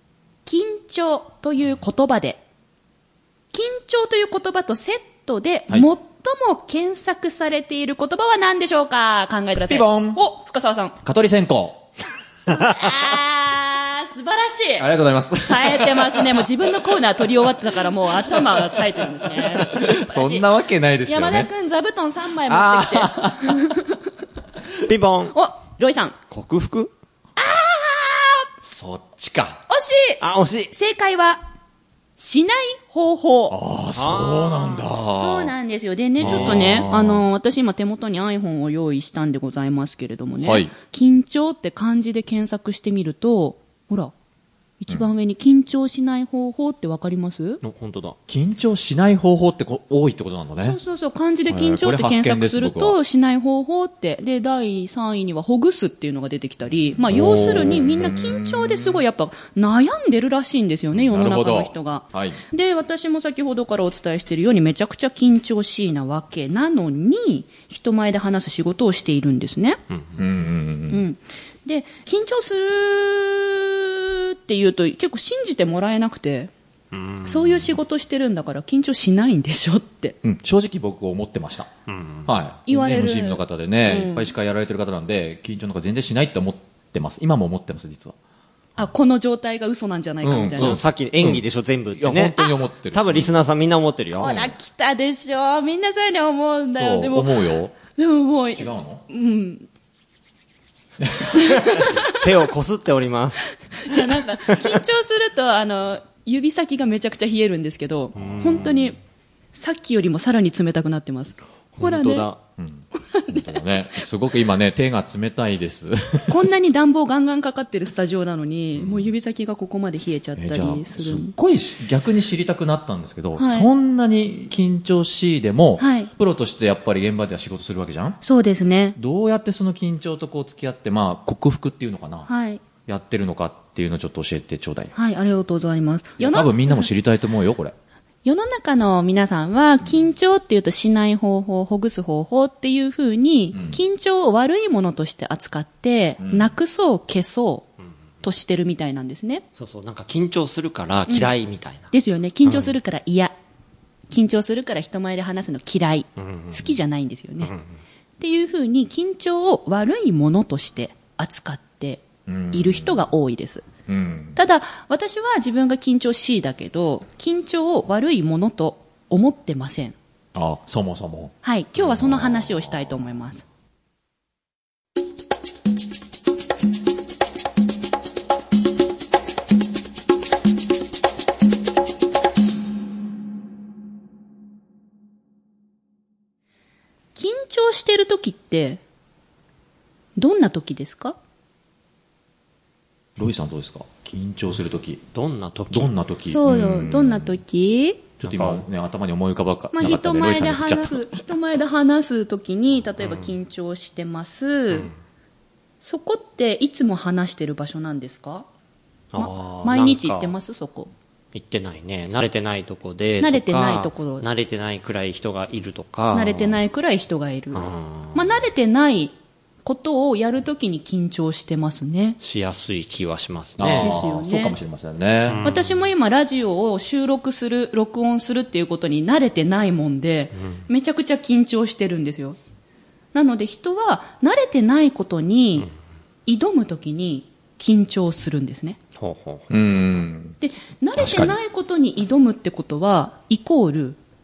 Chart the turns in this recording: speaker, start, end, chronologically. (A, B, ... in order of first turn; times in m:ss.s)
0:00.5-0:02.4 A
0:03.5-0:11.0 A
0:09.6-0:10.2 B
0:11.0-0:11.9 B
0:12.5-0:14.9 A
0:14.8-0:21.5 B
0:15.4-0:20.4 A
0:21.1-0:23.8 A
0:22.5-0:23.8 B
0:24.8-0:25.4 C
0:25.3-0:26.2 A
0:26.3-0:26.9 C
0:27.4-0:28.4 A
0:28.6-0:29.6 B
0:29.7-0:30.2 A
0:30.2-0:30.7 C
0:30.8-0:31.4 A
0:32.2-0:33.6 A
0:33.5-0:35.5 B
0:33.9-0:34.6 C
0:35.2-0:44.1 A
0:36.2-0:36.9 C
0:36.2-0:37.2 B
0:40.4-0:40.7 B
0:44.8-0:47.6 A
0:47.6-0:48.2 C
0:48.3-0:50.8 B
0:50.6-1:09.8 A
0:51.5-0:53.0 B
0:57.0-0:59.0 B
1:01.0-1:02.4 B
1:09.9-1:10.2 C
1:10.2-1:11.0 B
1:10.9-1:16.5 A
1:16.9-1:17.7 C
1:17.2-1:20.2 A
1:20.2-1:21.7 B
1:21.9-1:22.3 C
1:22.3-1:28.2 B
1:22.7-1:24.3 A
1:28.8-1:30.8 A
1:30.2-1:31.4 B
1:30.6-1:34.4 C
1:32.0-1:33.3 B
1:34.2-1:37.4 A
1:34.2-1:34.5 B
1:36.8-1:37.8 B
1:37.9-1:39.7 A
1:38.5-1:39.0 B
1:41.0-1:41.5 B
1:41.4-1:42.2 A
1:41.6-1:43.5 C
1:43.7-1:49.0 A
1:48.2-1:48.7 C
1:49.5-1:52.3 A
1:51.8-1:52.4 C
1:52.6-1:56.4 B
1:53.1-1:53.4 A
1:56.3-2:01.3 A
1:58.8-1:59.1 B
2:00.4-2:08.2 B
2:03.4-2:03.7 A
2:05.8-2:06.1 A
2:08.2-2:09.0 A
2:09.0-2:12.3 B
2:12.3-2:12.6 A
2:12.9-2:14.9 B
2:15.0-2:16.9 A
2:16.2-2:17.7 B
2:18.2-2:27.7 A
2:23.5-2:23.8 B
2:26.2-2:26.5 B
2:28.2-2:29.4 A
2:29.6-2:31.9 C
2:31.9-2:33.4 A
2:34.1-2:37.5 A
2:36.2-2:36.6 C
2:38.2-2:43.7 A
2:42.3-2:43.0 B
2:43.9-2:44.4 B
2:44.4-2:50.0 A
2:50.4-2:52.8 B
2:51.4-2:53.4 A
3:07.2-3:08.8 A
3:10.2-3:11.2 A
3:13.2-3:15.0 B
3:15.1-3:15.9 C
3:15.7-3:17.4 B
3:16.3-3:18.0 A
3:18.2-3:18.7 C
3:18.2-3:21.2 B
3:19.7-3:24.9 A
3:25.8-3:28.5 A
3:29.1-3:30.4 C
3:29.2-3:30.9 A
3:31.3-3:36.6 C
3:33.2-3:34.2 A
3:36.1-3:39.1 A
3:37.5-3:38.2 C
3:39.6-3:42.2 A
3:42.2-3:44.0 C
3:43.6-3:45.4 B
3:43.8-3:44.6 A
3:45.3-3:45.8 C
3:45.4-3:52.4 A
3:53.1-3:55.7 A
3:56.3-3:58.8 A
3:59.0-3:59.5 C
3:59.5-4:00.4 B
4:00.4-4:04.0 A
4:01.0-4:01.4 B